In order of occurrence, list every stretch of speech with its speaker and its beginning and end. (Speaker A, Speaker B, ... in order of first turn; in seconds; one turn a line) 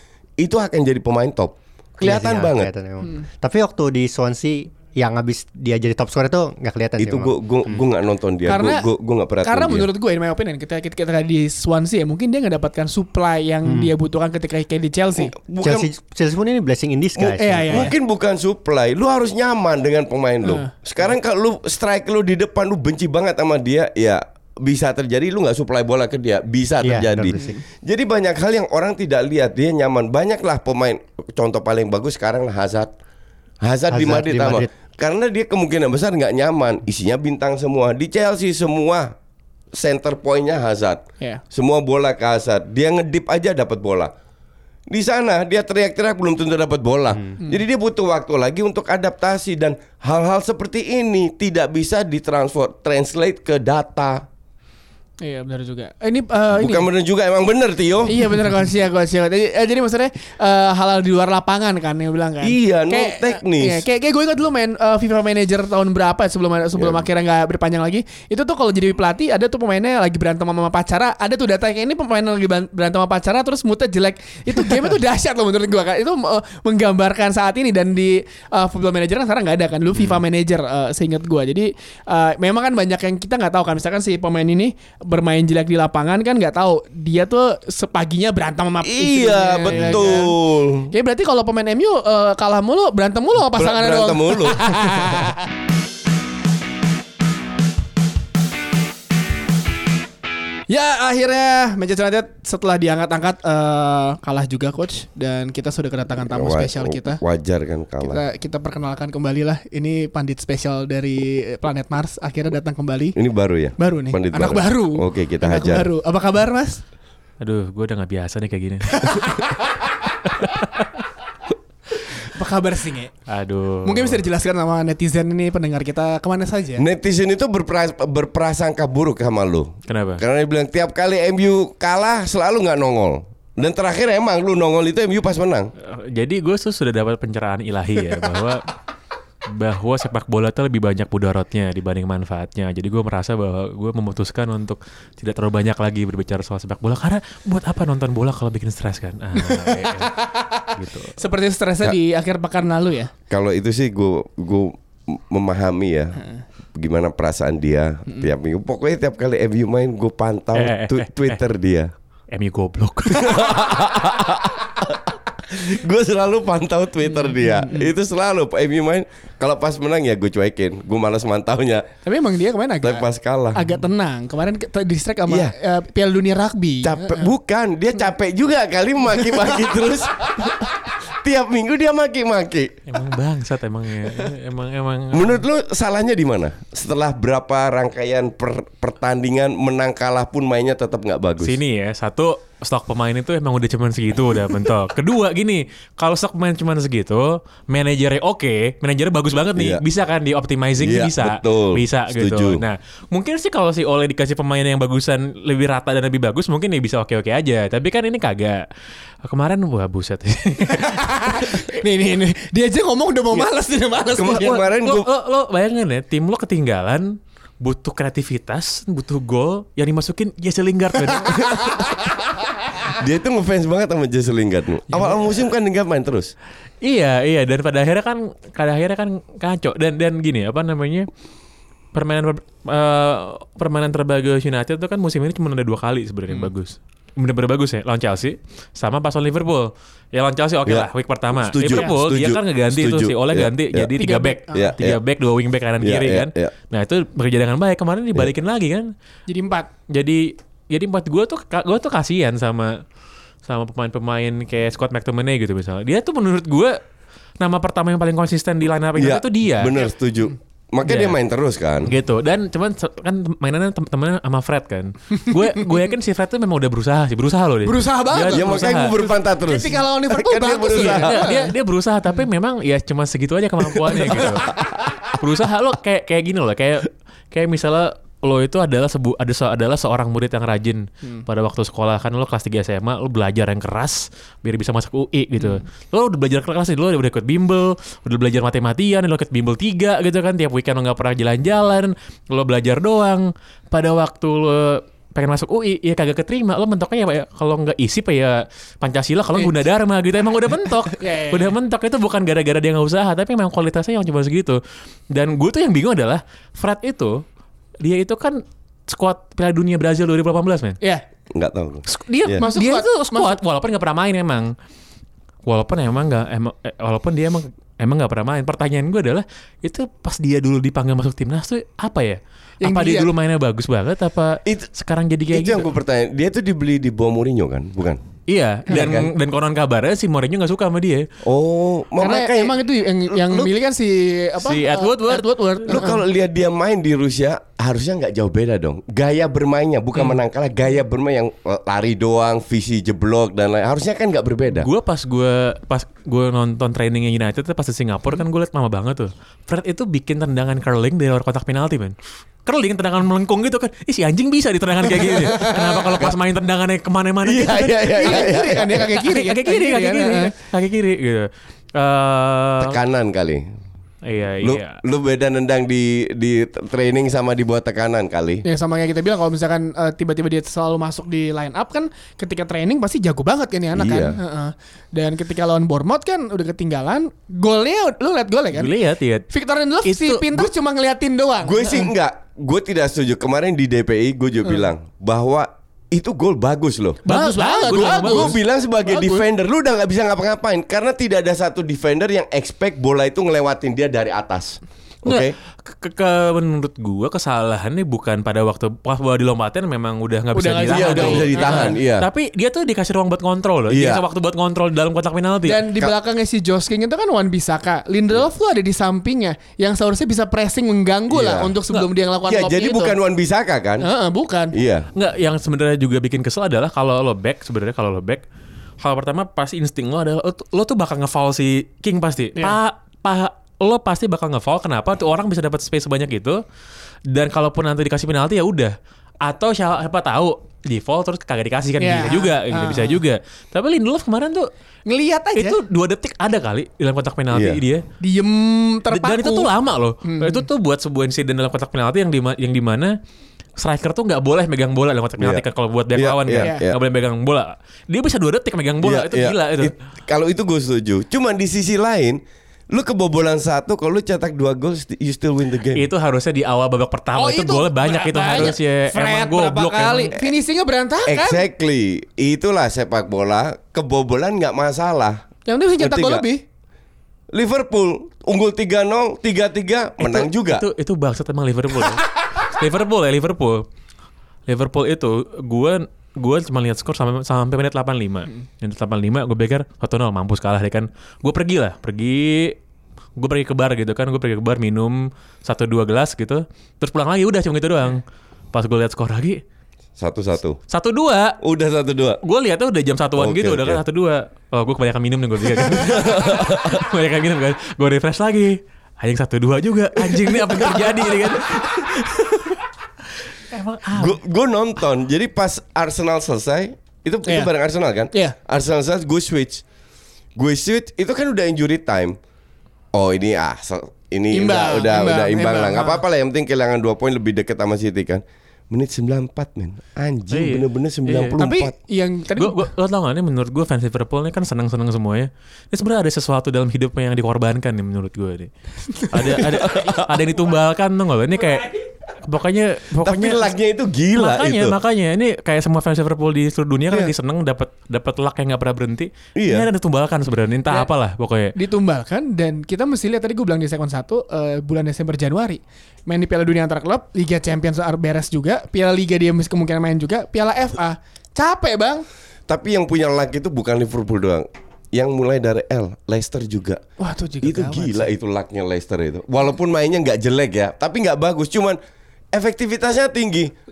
Speaker A: 0.4-2.7
Speaker B: 2.0-7.8
Speaker A: 7.0-9.9
Speaker C: 8.5-8.9
Speaker C: 9.4-15.3
Speaker B: 13.6-13.9
Speaker A: 15.2-15.9
Speaker B: 15.6-17.9
Speaker A: 17.2-32.9
Speaker C: 17.3-17.9
Speaker C: 20.4-20.7
Speaker B: 26.8-27.6
Speaker C: 27.3-27.6
Speaker A: 33.6-39.1
Speaker B: 33.9-34.7
Speaker A: 39.7-44.1
Speaker A: 44.9-54.2
Speaker C: 55.2-56.9
Speaker A: 56.5-58.3
Speaker C: 58.1-90.3
Speaker A: 62.4-63.8
Speaker A: 66.8-67.0
Speaker A: 88.8-90.9
Speaker C: 90.9-95.5
Speaker A: 93.5-95.0
Speaker C: 100.7-107.2
Speaker A: 106.2-108.2
Speaker C: 108.0-113.2
Speaker A: 113.2-115.9
Speaker C: 113.8-116.8
Speaker D: 117.4-119.3
Speaker C: 118.9-119.7
Speaker D: 120.4-120.8
Speaker C: 122.1-123.1
Speaker D: 123.3-124.2
Speaker C: 123.8-126.8
Speaker A: 126.8-135.7
Speaker D: 129.9-130.2
Speaker D: 135.8-138.7
Speaker D: 139.5-150.1
Speaker C: 149.4-153.1
Speaker D: 150.8-151.1
Speaker A: 153.3-156.2
Speaker A: 156.8-161.9
Speaker D: 160.6-161.4
Speaker D: 162.3-163.8
Speaker A: 163.1-171.9
Speaker C: 167.2-167.9
Speaker C: 172.1-177.3
Speaker A: 172.8-173.7
Speaker A: 175.3-175.5
Speaker A: 176.8-182.8
Speaker D: 182.9-185.4
Speaker A: 185.1-191.6
Speaker D: 191.4-208.7
Speaker A: 199.6-199.8
Speaker A: 200.8-202.6
Speaker D: 209.2-211.6
Speaker C: 210.7-214.7
Speaker A: 214.1-215.1
Speaker D: 214.4-221.8
Speaker C: 221.3-222.1
Speaker A: 222.9-226.3
Speaker D: 224.9-225.3
Speaker D: 226.8-231.1
Speaker D: 231.9-248.9
Speaker A: 240.7-243.9
Speaker C: 241.7-241.9
Speaker C: 244.0-244.8
Speaker A: 244.5-245.0
Speaker A: 245.8-246.5
Speaker C: 249.3-249.7
Speaker D: 249.9-252.8
Speaker D: 253.4-256.8
Speaker D: 257.4-259.8
Speaker A: 259.0-261.9
Speaker D: 260.8-261.2
Speaker D: 261.9-269.1
Speaker C: 267.6-271.5
Speaker A: 268.3-271.3
Speaker D: 270.7-307.2
Speaker A: 274.1-274.6
Speaker C: 301.0-301.5
Speaker D: 307.8-310.8
Speaker A: 311.3-312.4
Speaker D: 311.9-314.5
Speaker C: 312.4-313.4
Speaker D: 315.5-325.7
Speaker C: 322.6-323.1
Speaker A: 325.3-328.0
Speaker D: 328.3-331.1
Speaker C: 328.7-328.9
Speaker A: 328.7-329.1
Speaker A: 331.2-332.6
Speaker C: 332.0-336.0
Speaker A: 333.1-333.5
Speaker D: 334.4-335.9
Speaker A: 335.7-344.7
Speaker D: 344.5-362.8
Speaker C: 355.0-355.9
Speaker A: 357.2-358.9
Speaker C: 358.0-360.3
Speaker A: 362.6-363.4
Speaker D: 364.0-364.8
Speaker A: 364.4-368.4
Speaker C: 368.4-378.7
Speaker A: 373.7-374.2
Speaker D: 378.5-379.2
Speaker C: 379.3-381.9
Speaker D: 379.8-380.5
Speaker A: 381.4-387.0
Speaker C: 387.1-389.2
Speaker D: 387.1-388.4
Speaker A: 387.6-395.4
Speaker D: 395.1-405.6
Speaker C: 400.3-401.8
Speaker A: 400.7-402.1
Speaker A: 403.7-404.0
Speaker C: 405.4-412.9
Speaker A: 411.1-411.6
Speaker A: 412.2-413.9
Speaker C: 413.8-414.6
Speaker A: 414.5-414.9
Speaker D: 414.9-418.2
Speaker D: 418.8-426.4
Speaker D: 427.1-434.5
Speaker C: 431.8-433.0
Speaker C: 434.9-435.6
Speaker D: 435.4-437.8
Speaker A: 437.3-437.6
Speaker C: 438.0-439.5
Speaker D: 438.9-443.0
Speaker C: 440.0-440.4
Speaker D: 443.6-449.7
Speaker A: 445.9-446.8
Speaker C: 446.4-446.6
Speaker A: 448.8-455.9
Speaker D: 455.7-460.1
Speaker C: 457.1-461.4
Speaker A: 461.1-465.2
Speaker C: 465.4-466.4
Speaker A: 465.8-466.2
Speaker A: 467.3-470.6
Speaker D: 470.0-473.6
Speaker D: 474.5-482.6
Speaker D: 483.2-489.4
Speaker A: 490.0-490.6
Speaker D: 490.7-491.4
Speaker A: 491.4-492.2
Speaker D: 492.2-502.6
Speaker A: 493.2-493.8
Speaker A: 495.6-496.9
Speaker D: 503.5-504.2
Speaker A: 503.9-509.6
Speaker C: 507.3-507.5
Speaker C: 508.1-508.4
Speaker A: 510.4-512.2
Speaker A: 512.9-521.7
Speaker C: 514.3-516.0
Speaker D: 520.3-521.4
Speaker C: 521.4-522.7
Speaker D: 522.4-533.5
Speaker A: 529.2-530.2
Speaker A: 533.0-534.8
Speaker D: 534.1-541.5
Speaker A: 539.4-539.7
Speaker C: 541.5-552.1
Speaker A: 552.5-556.8
Speaker C: 557.0-558.1
Speaker A: 557.4-561.8
Speaker A: 562.3-563.5